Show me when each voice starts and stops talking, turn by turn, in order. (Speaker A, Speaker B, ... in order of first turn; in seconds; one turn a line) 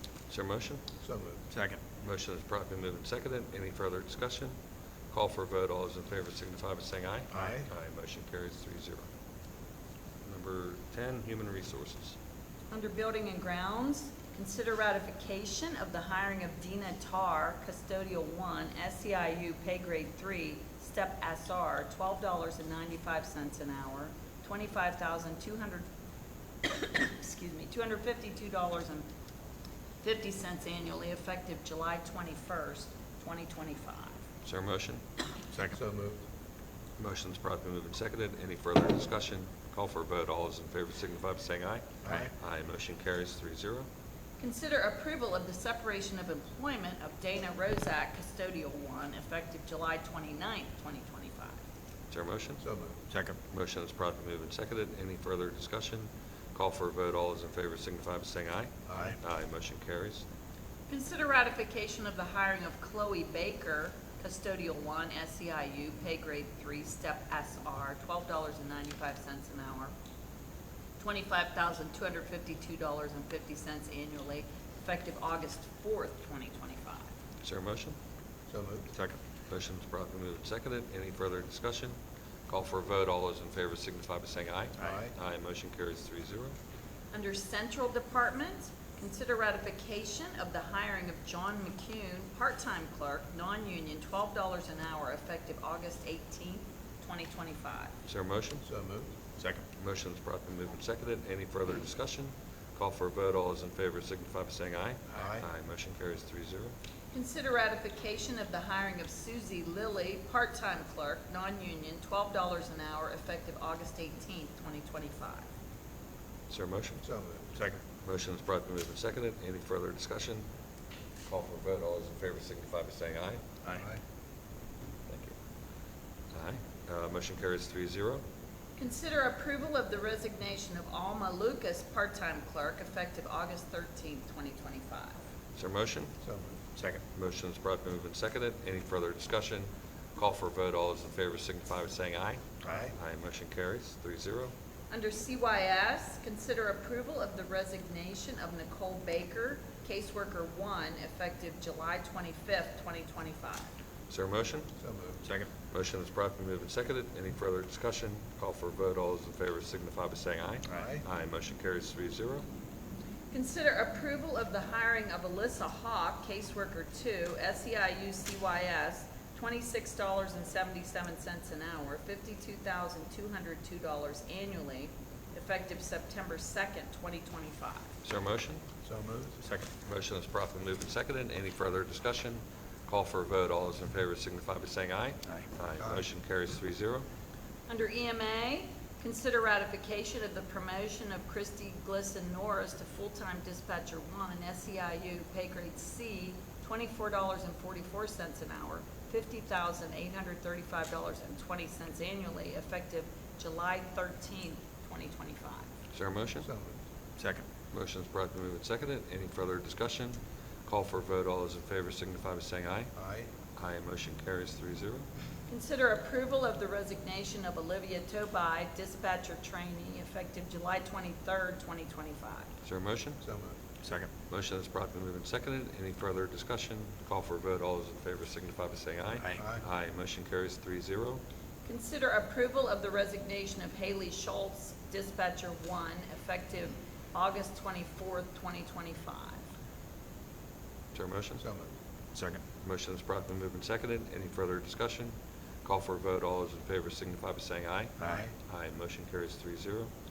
Speaker A: 0.3-0.8
Speaker B: 1.0-1.4
Speaker C: 1.5-1.8
Speaker A: 2.0-4.5
Speaker A: 5.1-9.1
Speaker B: 7.3-7.7
Speaker C: 7.3-7.6
Speaker A: 10.2-12.2
Speaker D: 12.7-25.9
Speaker D: 26.6-29.1
Speaker D: 30.0-34.2
Speaker A: 34.4-35.0
Speaker B: 35.7-36.2
Speaker A: 37.0-43.9
Speaker B: 42.0-42.3
Speaker D: 44.4-51.6
Speaker A: 52.1-52.6
Speaker B: 52.6-53.0
Speaker C: 53.1-53.4
Speaker A: 53.5-60.2
Speaker B: 58.9-59.1
Speaker D: 60.9-69.9
Speaker D: 71.0-77.1
Speaker A: 77.4-78.0
Speaker B: 78.5-78.9
Speaker C: 78.9-79.2
Speaker A: 79.5-82.0
Speaker A: 82.5-86.5
Speaker B: 84.8-85.1
Speaker D: 87.1-97.9
Speaker A: 98.1-98.6
Speaker B: 98.6-99.1
Speaker C: 99.4-99.6
Speaker A: 99.8-106.7
Speaker B: 105.1-105.4
Speaker D: 107.1-115.5
Speaker A: 116.5-117.0
Speaker B: 117.0-117.5
Speaker A: 118.0-120.4
Speaker A: 121.2-123.4
Speaker A: 125.1-125.3
Speaker A: 126.3-128.2
Speaker D: 128.8-135.2
Speaker A: 135.6-136.1
Speaker B: 136.2-136.6
Speaker C: 136.8-137.0
Speaker A: 137.1-144.5
Speaker B: 142.7-142.9
Speaker D: 144.9-153.7
Speaker A: 154.1-154.7
Speaker B: 154.8-155.2
Speaker C: 155.2-155.5
Speaker A: 155.7-162.4
Speaker B: 160.7-161.0
Speaker D: 163.3-177.9
Speaker A: 178.0-178.6
Speaker B: 178.8-179.4
Speaker C: 179.4-179.7
Speaker A: 179.8-187.1
Speaker B: 185.8-186.0
Speaker D: 187.7-205.7
Speaker A: 205.9-206.5
Speaker B: 206.4-206.8
Speaker C: 207.2-207.4
Speaker A: 207.7-212.9
Speaker B: 212.9-213.3
Speaker A: 213.6-215.1
Speaker D: 215.5-222.5
Speaker A: 222.6-223.2
Speaker B: 223.2-223.6
Speaker C: 223.8-224.1
Speaker A: 224.3-231.2
Speaker B: 229.3-229.6
Speaker D: 231.6-239.4
Speaker A: 240.9-241.4
Speaker B: 241.4-241.7
Speaker C: 242.1-242.4
Speaker A: 242.6-245.1
Speaker A: 245.6-249.9
Speaker C: 248.0-248.2
Speaker B: 248.0-248.3